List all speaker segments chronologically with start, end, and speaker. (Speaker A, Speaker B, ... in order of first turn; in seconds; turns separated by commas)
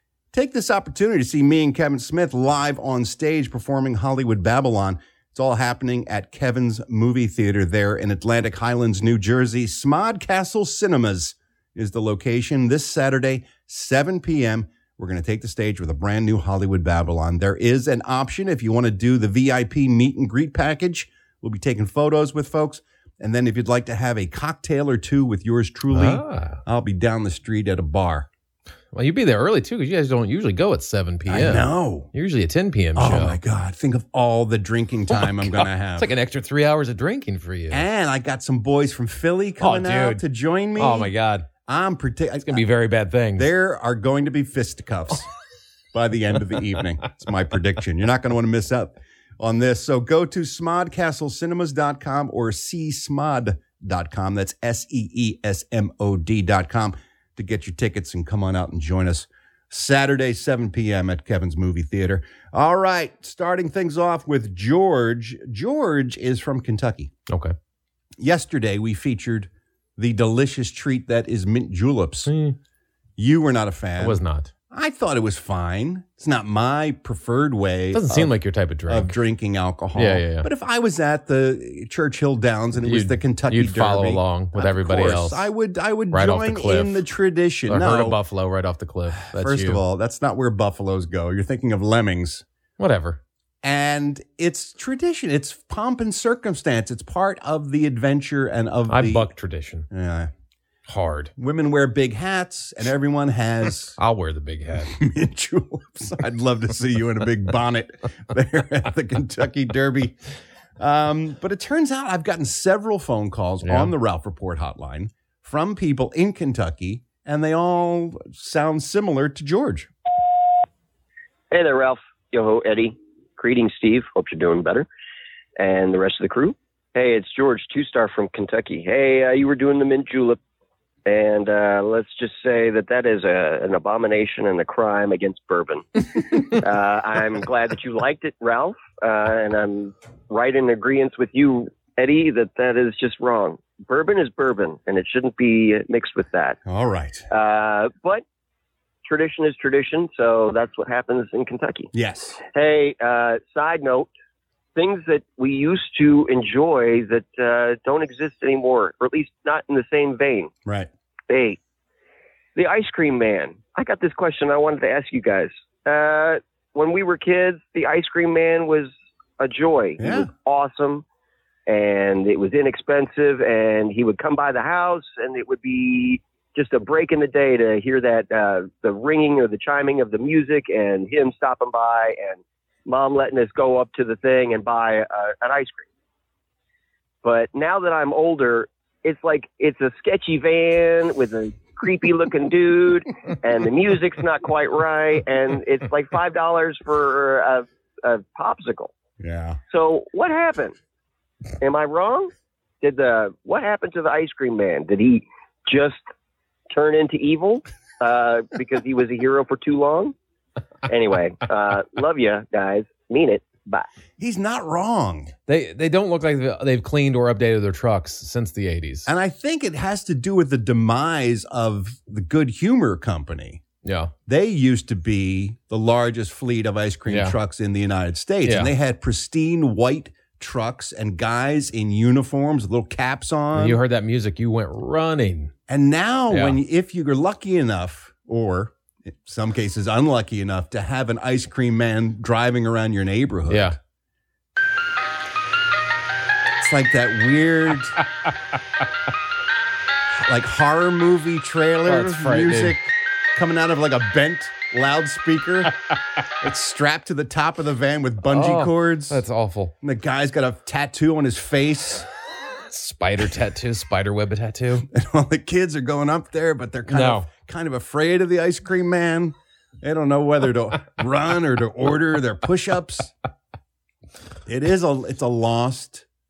Speaker A: 0.3-28.3, Speaker B: 25.9-26.6, Speaker B: 28.9-33.4, Speaker A: 31.3-32.1, Speaker A: 33.0-36.1, Speaker B: 35.1-37.9, Speaker A: 37.7-41.1, Speaker B: 39.6-40.2, Speaker B: 40.8-41.5, Speaker A: 41.6-42.6, Speaker B: 42.5-43.5, Speaker A: 43.4-45.3, Speaker A: 45.9-67.1, Speaker B: 67.3-67.5, Speaker A: 68.2-72.3, Speaker B: 72.2-72.5, Speaker A: 73.2-74.2, Speaker B: 74.0-74.5, Speaker A: 74.7-78.3, Speaker B: 77.9-79.1, Speaker A: 78.9-88.2, Speaker B: 79.9-80.5, Speaker B: 82.8-85.5, Speaker B: 86.1-87.0, Speaker B: 87.7-89.8, Speaker A: 89.2-92.4, Speaker B: 92.8-93.2, Speaker A: 93.6-99.3, Speaker B: 98.9-99.9, Speaker A: 99.9-100.3, Speaker B: 100.9-101.3, Speaker A: 101.4-104.0, Speaker B: 104.0-104.9, Speaker A: 104.9-110.2, Speaker A: 110.8-119.9, Speaker B: 113.6-113.9, Speaker C: 121.5-124.9, Speaker C: 125.6-130.4, Speaker C: 131.1-146.6, Speaker A: 146.7-147.2, Speaker C: 147.3-148.2, Speaker C: 149.0-151.9, Speaker A: 151.9-152.4, Speaker C: 152.5-154.1, Speaker C: 154.8-160.5, Speaker C: 161.3-161.6, Speaker C: 162.6-171.0, Speaker A: 170.0-170.3, Speaker C: 171.7-185.9, Speaker C: 187.2-198.9, Speaker A: 199.2-199.6, Speaker C: 199.7-200.8, Speaker C: 201.6-206.0, Speaker C: 206.7-210.1, Speaker C: 210.9-213.9, Speaker A: 214.2-215.3, Speaker B: 215.5-219.1, Speaker A: 219.1-223.6, Speaker B: 223.8-224.1, Speaker A: 224.3-233.8, Speaker B: 227.1-227.4, Speaker B: 228.4-228.7, Speaker B: 233.5-235.5, Speaker A: 235.7-243.7, Speaker B: 236.3-236.6, Speaker B: 243.5-243.8, Speaker A: 246.6-248.0, Speaker A: 250.2-255.7, Speaker B: 251.8-252.8, Speaker A: 256.4-259.2, Speaker B: 258.2-259.7, Speaker A: 259.8-262.1, Speaker B: 262.7-264.9, Speaker A: 264.9-273.1, Speaker B: 266.9-267.3, Speaker A: 274.4-276.0